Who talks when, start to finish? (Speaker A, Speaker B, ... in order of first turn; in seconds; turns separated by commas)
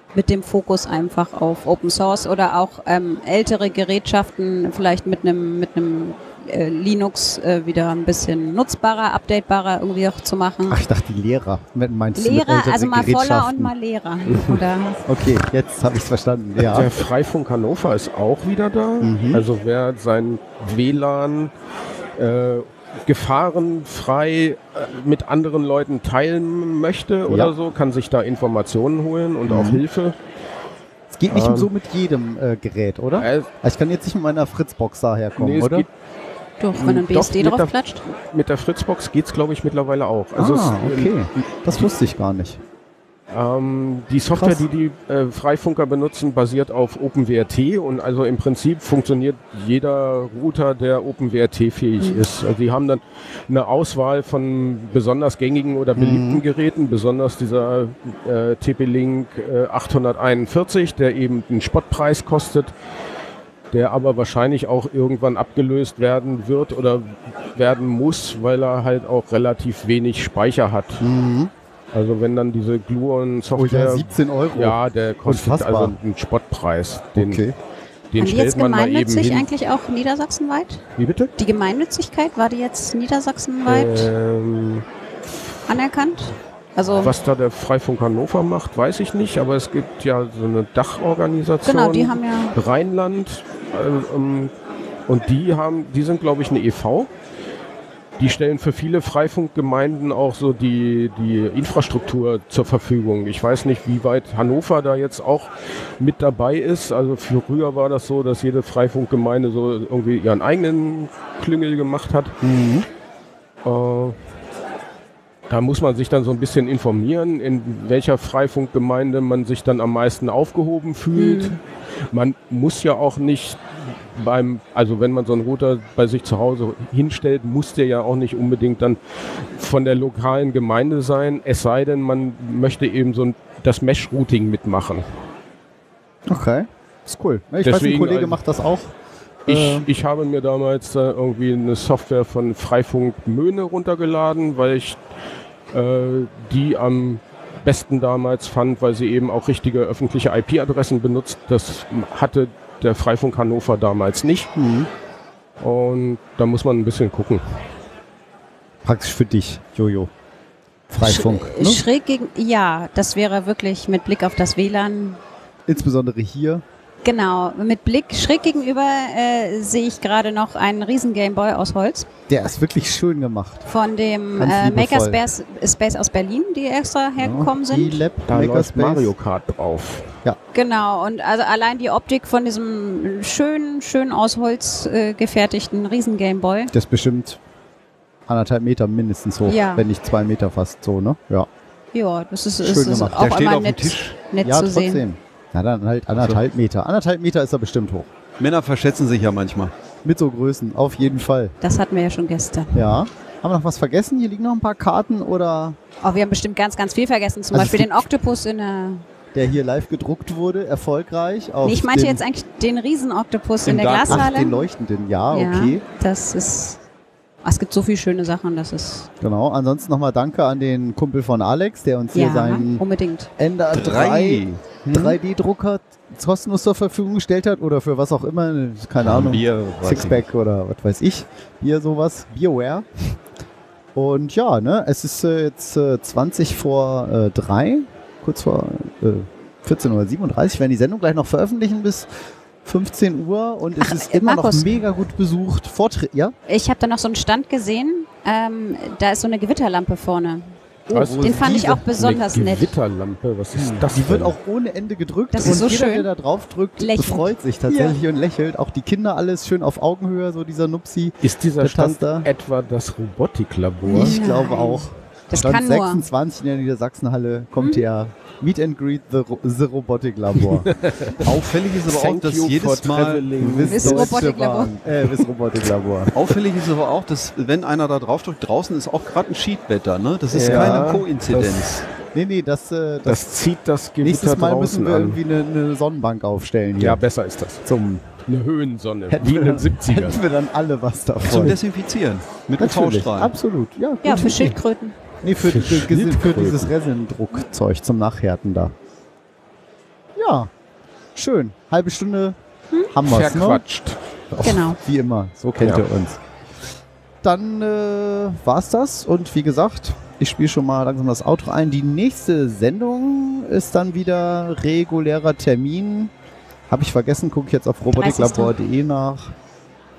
Speaker A: 0.1-10.8, Speaker B: 10.7-13.7, Speaker A: 12.2-15.0, Speaker C: 14.2-14.6, Speaker B: 15.1-16.9, Speaker C: 16.6-21.5, Speaker B: 19.0-19.4, Speaker C: 22.2-30.2, Speaker B: 27.3-27.5, Speaker B: 29.4-29.8, Speaker B: 31.1-35.9, Speaker C: 31.3-31.7, Speaker C: 33.2-33.5, Speaker C: 35.4-35.9, Speaker A: 36.6-38.0, Speaker C: 36.8-41.1, Speaker B: 40.4-42.6, Speaker C: 43.3-62.7, Speaker B: 44.3-44.6, Speaker B: 56.0-56.4, Speaker C: 63.7-71.1, Speaker B: 71.0-71.5, Speaker C: 71.9-77.4, Speaker B: 73.5-75.9, Speaker B: 77.2-77.5, Speaker C: 78.1-79.5, Speaker A: 78.2-80.8, Speaker C: 81.0-81.3, Speaker A: 81.4-84.1, Speaker C: 83.7-84.8, Speaker A: 85.7-87.1, Speaker C: 86.9-94.5, Speaker A: 91.6-92.5, Speaker C: 95.1-97.1, Speaker C: 98.2-112.4, Speaker B: 112.4-112.9, Speaker C: 113.6-114.2, Speaker C: 115.5-135.0, Speaker A: 121.1-121.6, Speaker B: 136.3-138.9, Speaker C: 137.6-138.4, Speaker B: 139.5-139.9, Speaker C: 139.5-145.0, Speaker C: 145.7-154.5, Speaker B: 154.5-154.9, Speaker C: 155.6-157.4, Speaker B: 158.8-160.1, Speaker B: 160.9-161.8, Speaker A: 161.0-165.2, Speaker B: 165.7-166.6, Speaker A: 167.0-172.1, Speaker B: 172.3-173.7, Speaker A: 173.7-178.0, Speaker B: 174.4-175.2, Speaker B: 177.2-179.1, Speaker C: 178.3-180.1, Speaker A: 180.5-186.7, Speaker B: 186.7-187.4, Speaker B: 188.3-191.5, Speaker A: 189.4-189.8, Speaker A: 191.9-195.0, Speaker B: 192.6-193.3, Speaker D: 193.1-194.2, Speaker B: 194.4-198.1, Speaker D: 198.4-199.7, Speaker B: 200.0-201.5, Speaker A: 201.6-203.0, Speaker B: 202.7-205.8, Speaker A: 206.0-209.1, Speaker B: 207.5-208.1, Speaker B: 209.3-212.2, Speaker A: 211.6-214.7, Speaker D: 213.6-214.3, Speaker B: 214.1-215.8, Speaker A: 215.3-216.8, Speaker A: 217.4-219.1, Speaker B: 219.2-222.8, Speaker A: 222.1-223.3, Speaker B: 223.4-232.9, Speaker D: 223.7-225.2, Speaker D: 229.0-230.3, Speaker B: 233.9-242.1, Speaker B: 242.6-246.3, Speaker A: 243.8-244.8, Speaker A: 246.5-250.6, Speaker B: 250.9-251.8, Speaker C: 250.9-254.3, Speaker A: 251.2-252.7, Speaker B: 253.5-262.3, Speaker A: 255.3-256.1, Speaker A: 256.8-257.9, Speaker C: 261.2-264.2, Speaker B: 263.8-270.7, Speaker A: 263.9-266.1, Speaker A: 267.6-267.9, Speaker C: 270.4-271.3, Speaker D: 271.2-273.3, Speaker C: 271.8-274.2, Speaker B: 273.4-276.1, Speaker A: 273.6-274.8, Speaker D: 276.1-281.8, Speaker C: 280.3-281.8, Speaker B: 280.4-280.9, Speaker B: 282.1-283.2, Speaker C: 283.0-285.2, Speaker B: 284.0-287.0, Speaker C: 286.8-287.6, Speaker B: 287.6-288.1, Speaker C: 288.2-290.2, Speaker B: 289.1-291.6, Speaker D: 291.2-293.3, Speaker B: 292.6-294.6, Speaker A: 294.0-295.0, Speaker B: 295.2-298.7, Speaker C: 295.4-296.7, Speaker B: 300.1-300.5, Speaker B: 301.1-302.4, Speaker B: 302.9-303.6, Speaker C: 303.0-304.0, Speaker B: 304.3-306.2, Speaker A: 304.4-304.8, Speaker B: 307.2-316.1, Speaker B: 316.7-319.3, Speaker A: 318.0-318.5